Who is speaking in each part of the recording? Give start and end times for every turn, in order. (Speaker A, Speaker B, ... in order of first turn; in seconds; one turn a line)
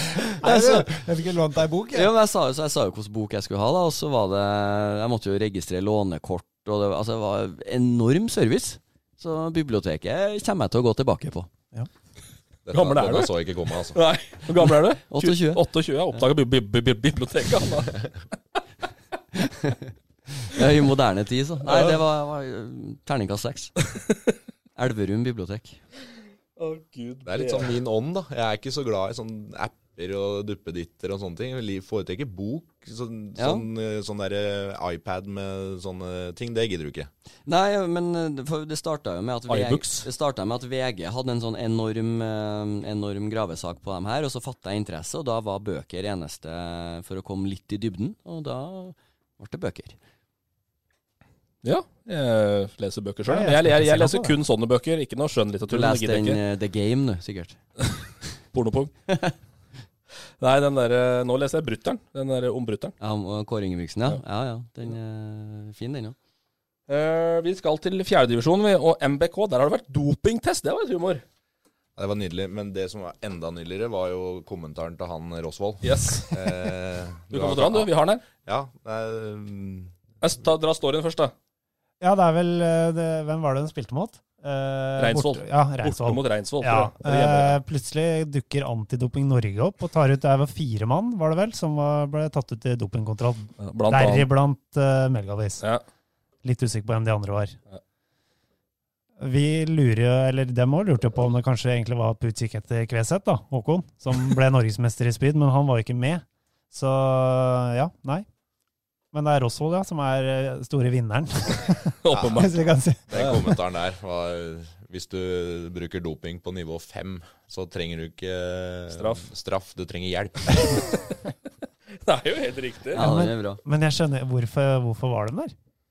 Speaker A: 0.1-2.1
Speaker B: 0.4-1.0
Speaker B: 1.9-11.5
Speaker C: 12.7-14.0
Speaker D: 12.7-13.3
Speaker D: 13.9-18.1
Speaker B: 15.1-15.6
Speaker B: 19.4-23.7
Speaker D: 21.6-22.0
Speaker B: 24.8-25.8
Speaker D: 26.6-27.7
Speaker C: 27.2-37.1
Speaker B: 33.4-33.6
Speaker B: 37.5-50.0
Speaker D: 39.5-40.1
Speaker D: 51.6-56.4
Speaker A: 53.3-54.3
Speaker B: 55.7-57.6
Speaker D: 58.5-58.9
Speaker D: 60.4-62.9
Speaker B: 63.0-66.2
Speaker D: 66.9-71.2
Speaker C: 72.0-77.9
Speaker D: 75.8-76.3
Speaker D: 77.3-78.2
Speaker C: 78.4-79.9
Speaker D: 80.2-81.3
Speaker A: 82.0-95.6
Speaker D: 85.0-87.6
Speaker D: 93.6-94.3
Speaker A: 96.4-97.6
Speaker A: 99.2-108.2
Speaker A: 109.1-113.0
Speaker D: 112.0-112.6
Speaker C: 112.1-112.5
Speaker C: 113.1-120.9
Speaker D: 113.1-113.4
Speaker D: 118.9-119.3
Speaker D: 121.9-123.1
Speaker B: 122.9-123.6
Speaker A: 122.9-125.5